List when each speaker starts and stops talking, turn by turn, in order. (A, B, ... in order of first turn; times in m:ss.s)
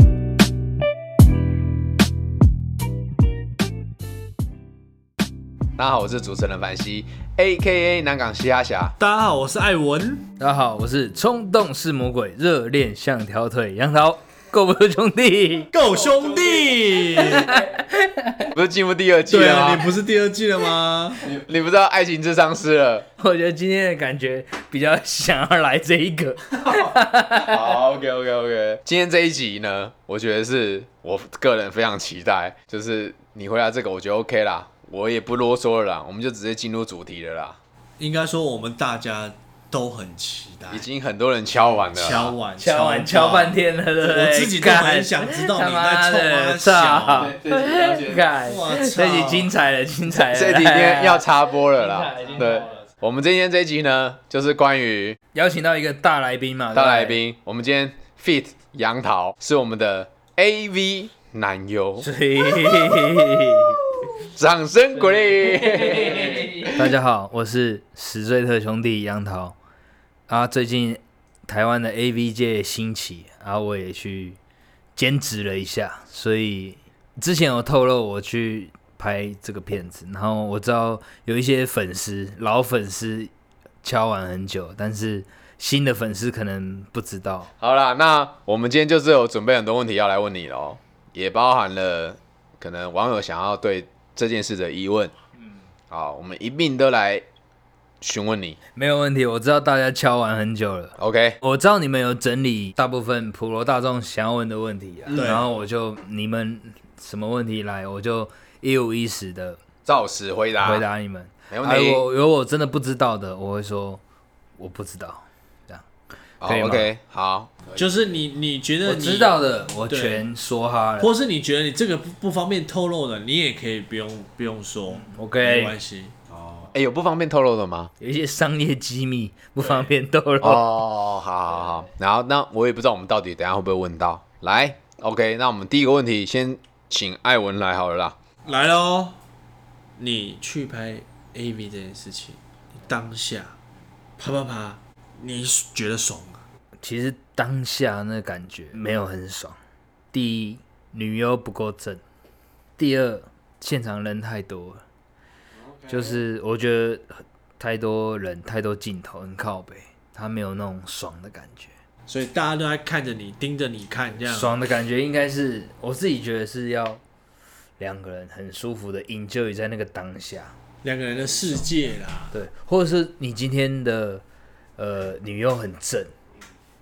0:05.8-0:09.0 A
0:09.0-0:10.3 B
0:10.4-0:15.7 C
0:15.7-0:17.6 B
0:17.2-0:18.5 C
0:18.5-0:19.9 A
0:19.3-0:21.3 B
0:21.2-0:23.0 A
0:23.2-0:27.7 C
0:26.6-0:37.6 A
0:38.0-0:40.8 B
0:40.7-0:42.3 A
0:41.9-0:47.3 B
0:42.6-0:52.8 C
0:47.1-0:48.4 A
0:48.4-0:49.5 B
0:50.1-0:55.2 A
0:55.3-0:57.2 C
0:56.7-1:02.1 A
1:02.0-1:03.8 C
1:04.2-1:06.9 A
1:05.4-1:09.6 C
1:10.3-1:14.4 C
1:15.0-1:23.3 C
1:23.8-1:27.5 C
1:27.6-1:35.1 A
1:35.9-1:37.2 A
1:38.0-1:38.6 A
1:38.8-1:49.6 C
1:41.0-1:41.4 A
1:45.1-1:45.5 B
1:49.8-1:50.8 A
1:50.6-1:54.0 C
1:51.5-1:52.0 A
1:54.6-1:55.8 C
1:56.4-1:57.8 A
1:56.4-1:56.9 C
1:57.7-1:59.4 B
1:58.8-2:01.1 C
1:59.9-2:00.2 B
2:01.0-2:06.1 B
2:04.9-2:05.7 C
2:06.4-2:07.9 A
2:08.0-2:10.6 C
2:10.4-2:18.2 A
2:18.4-2:19.2 B
2:20.0-2:23.5 B
2:24.2-2:26.4 B
2:26.8-2:29.6 C
2:30.1-2:32.0 C
2:32.8-2:34.8 C
2:35.6-2:36.2 B
2:35.9-2:41.7 C
2:42.1-2:44.6 B
2:44.3-2:47.0 C
2:47.8-2:50.5 C
2:50.8-2:52.3 B
2:52.3-2:54.2 C
2:54.8-2:56.1 C